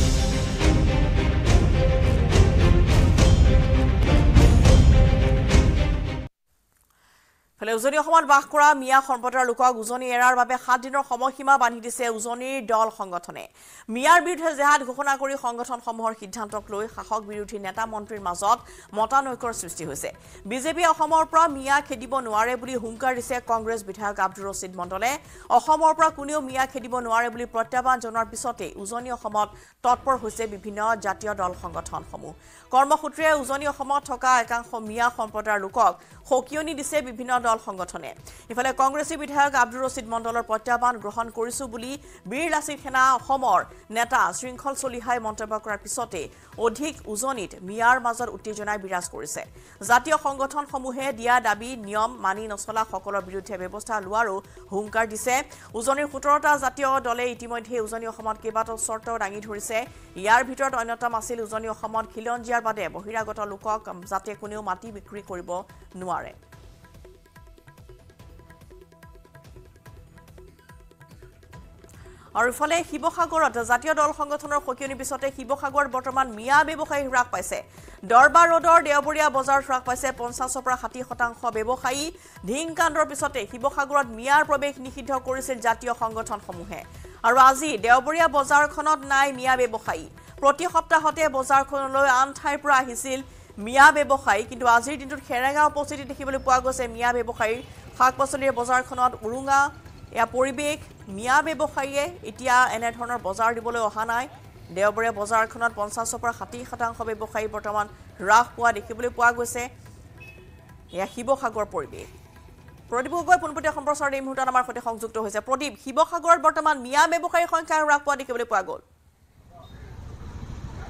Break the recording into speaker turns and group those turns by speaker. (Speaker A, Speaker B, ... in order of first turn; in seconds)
Speaker A: 7.6-66.3, 72.4-99.7, 100.2-109.7, 111.0-112.1, 112.9-118.8